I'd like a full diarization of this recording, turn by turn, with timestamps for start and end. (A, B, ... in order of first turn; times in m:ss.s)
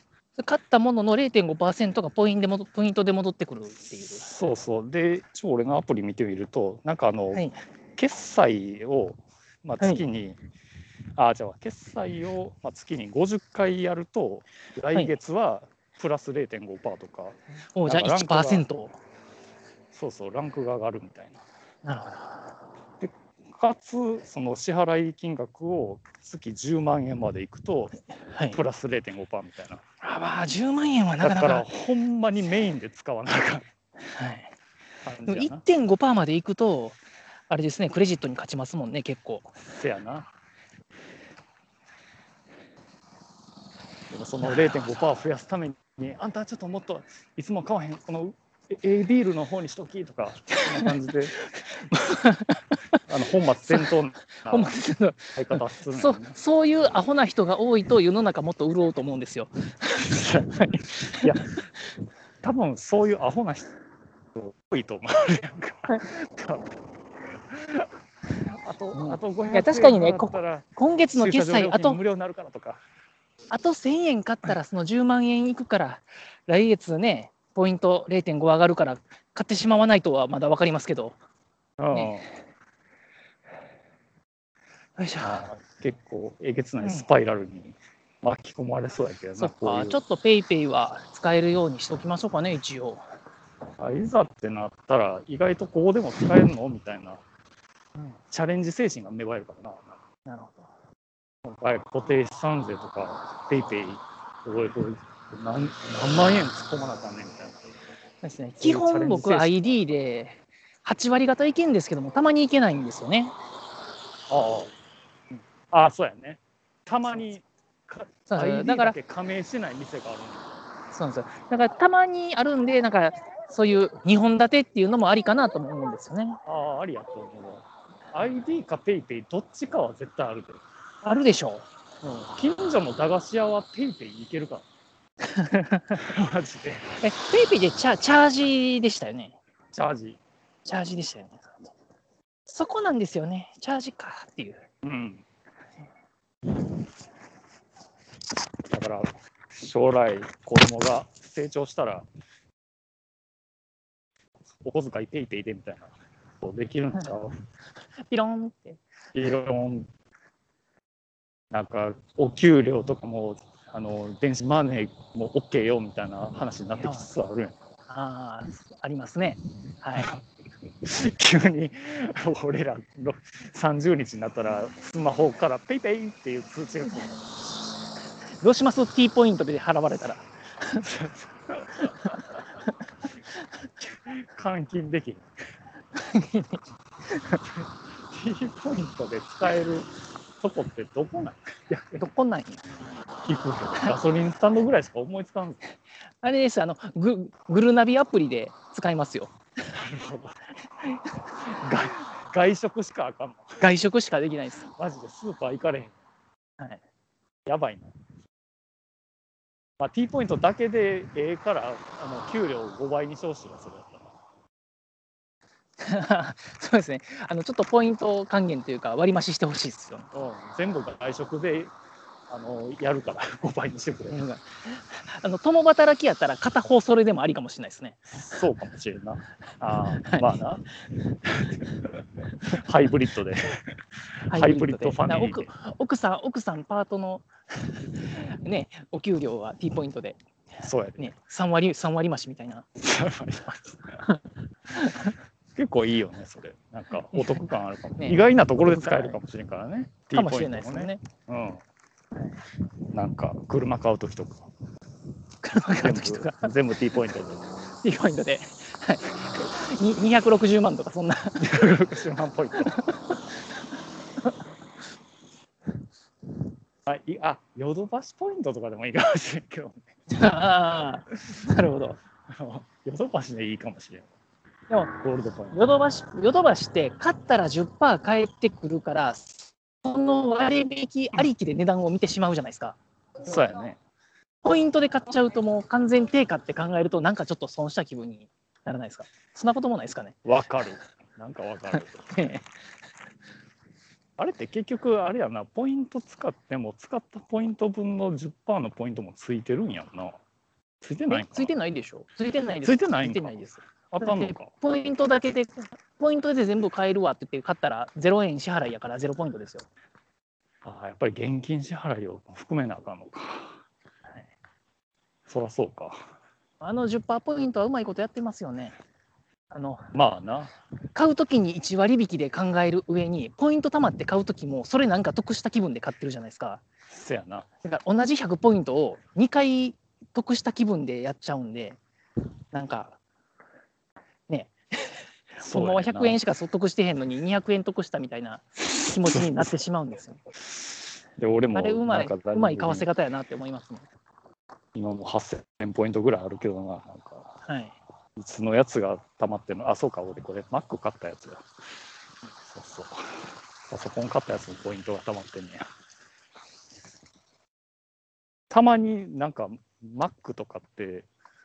0:00.4-0:04.3 A
0:04.2-0:07.4 B
0:08.0-0:10.4 B
0:11.2-0:18.6 B
0:17.7-0:18.9 A
0:19.9-0:21.4 B
0:21.8-0:22.5 A
0:23.0-0:27.9 B
0:28.3-0:28.6 A
0:28.5-0:29.8 B
0:30.0-0:31.7 A
0:31.2-0:33.7 B
0:34.1-0:34.5 A
0:35.0-0:35.6 B
0:35.3-0:37.0 A
0:37.5-0:39.5 A
0:39.6-0:40.3 B
0:44.1-0:51.3 B
0:44.4-0:44.7 A
0:50.5-0:50.9 A
0:51.9-0:52.6 A
0:53.1-0:54.8 B
0:54.5-1:01.4 A
0:55.3-0:56.3 B
1:00.0-1:00.5 B
1:02.4-1:03.7 B
1:04.3-1:06.7 B
1:07.5-1:07.9 B
1:08.4-1:12.8 B
1:08.9-1:12.0 A
1:13.5-1:21.2 A
1:21.8-1:22.3 B
1:21.9-1:22.2 A
1:25.0-1:25.4 A
1:25.2-1:30.0 B
1:29.4-1:33.0 A
1:33.8-1:37.2 B
1:38.3-1:40.0 B
1:40.2-1:40.7 A
1:41.4-1:47.6 B
1:48.2-1:53.3 A
1:48.6-1:49.5 B
1:54.3-1:54.7 B
1:55.7-2:00.6 B
1:58.3-1:59.0 A
2:00.9-2:06.4 A
2:06.4-2:10.6 B
2:11.0-2:11.6 A
2:12.0-2:14.6 B
2:15.2-2:16.0 A
2:16.0-2:16.9 B
2:17.0-2:19.4 A
2:19.7-2:20.2 B
2:20.6-2:21.7 A
2:22.5-2:24.6 A
2:24.8-2:25.2 B
2:28.7-2:32.0 B
2:34.6-2:37.3 B
2:38.1-2:38.8 A
2:39.1-2:39.9 B
2:41.5-2:47.6 B
2:46.8-2:47.1 A
2:47.9-2:50.1 A
2:50.8-2:57.2 B
2:58.4-3:00.8 A
3:00.8-3:02.2 B
3:03.9-3:05.3 B
3:05.9-3:06.6 A
3:08.1-3:12.0 B
3:11.9-3:12.6 A
3:13.2-3:15.6 B
3:16.2-3:19.3 A
3:19.7-3:20.4 B
3:21.4-3:23.6 B
3:23.6-3:24.7 A
3:24.7-3:26.0 B
3:27.4-3:27.9 B
3:29.8-3:34.1 B
3:35.8-3:40.1 A
3:40.1-3:41.7 B
3:42.3-3:44.2 B
3:44.1-3:48.1 A
3:48.1-3:50.6 B
3:50.0-3:50.3 A
3:51.2-3:53.7 B
3:54.3-3:55.5 B
3:54.3-3:57.2 A
3:58.0-4:00.2 A
4:00.6-4:01.1 B
4:01.0-4:02.6 A
4:02.8-4:04.0 B
4:04.8-4:05.1 A
4:05.5-4:11.6 B
4:07.1-4:07.4 A
4:08.0-4:09.2 A
4:10.1-4:11.0 A
4:12.9-4:14.5 B
4:15.4-4:16.5 A
4:15.8-4:17.5 B
4:17.8-4:21.5 A
4:21.4-4:22.8 B
4:22.6-4:22.9 A
4:26.8-4:29.8 B
4:30.1-4:32.0 A
4:32.3-4:34.1 B
4:35.0-4:35.6 B
4:35.5-4:42.8 A
4:43.2-4:43.8 B
4:44.4-4:50.2 A
4:50.2-4:52.1 B
4:51.7-4:52.4 A
4:54.2-5:00.2 B
5:00.8-5:01.5 B
5:01.1-5:09.6 A
5:02.6-5:04.5 B
5:10.6-5:13.6 B
5:15.3-5:16.0 B
5:16.6-5:18.7 A
5:19.5-5:19.9 A
5:19.9-5:20.5 B
5:20.9-5:26.6 A
5:26.9-5:27.5 B
5:27.6-5:31.8 A
5:32.5-5:33.0 A
5:34.3-5:34.5 A
5:35.4-5:40.2 A
5:35.4-5:36.2 B
5:39.0-5:39.5 B
5:41.2-5:42.9 B
5:41.5-5:43.9 A
5:44.7-5:47.3 B
5:47.4-5:47.8 A
5:48.2-5:51.4 B
5:52.5-5:55.6 B
5:58.5-6:01.1 B